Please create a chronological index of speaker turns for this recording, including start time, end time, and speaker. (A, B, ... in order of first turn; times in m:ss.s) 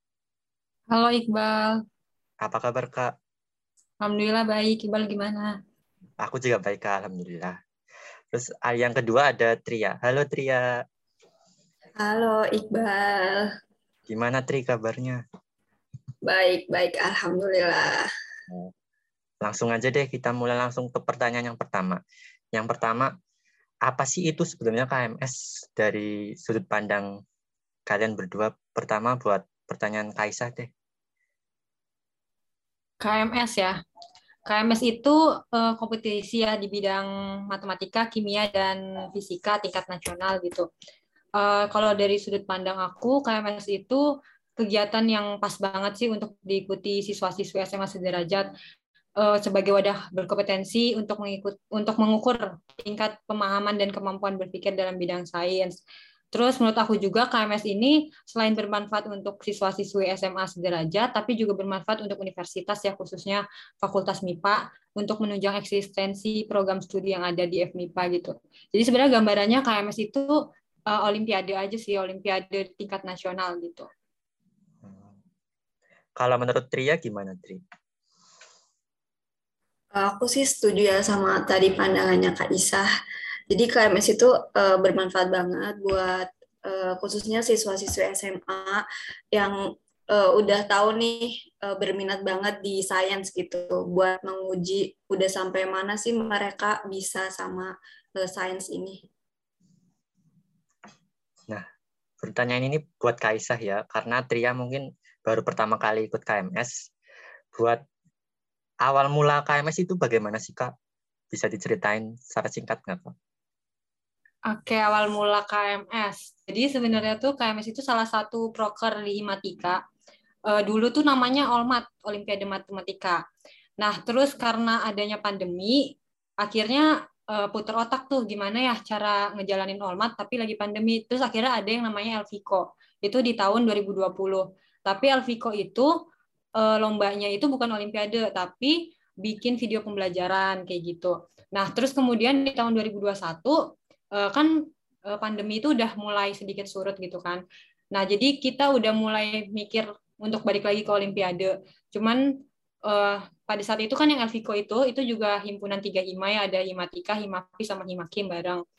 0:00.9-0:01.8 A
0:02.4-0:03.1 B
0:04.0-0:05.5 A
0:06.2-0:07.6 B
0:08.3-0:10.6 B
0:12.0-0:13.5 C
0:14.1-0:15.2 B
0:16.2-0:18.1 C
0:19.4-0:22.0 B
0:22.5-0:23.1 B
0:23.8-0:27.1 B
0:27.9-0:30.7 B
0:33.0-0:33.8 A
0:34.5-0:40.7 A
0:41.4-0:44.0 A
0:44.6-0:48.5 A
0:49.2-0:55.8 A
0:56.3-1:10.4 A
1:10.9-1:13.9 A
1:14.8-1:15.2 B
1:16.2-1:17.6 B
1:19.9-1:22.8 C
1:23.5-1:29.6 C
1:30.1-1:39.0 C
1:42.2-1:46.9 B
1:47.5-1:47.8 B
1:48.8-1:50.7 B
1:51.3-1:53.1 B
1:54.5-1:59.8 A
2:00.5-2:03.2 A
2:03.8-2:15.9 A
2:16.6-2:23.6 A
2:24.2-2:24.5 A
2:25.1-2:32.2 A
2:32.9-2:38.6 A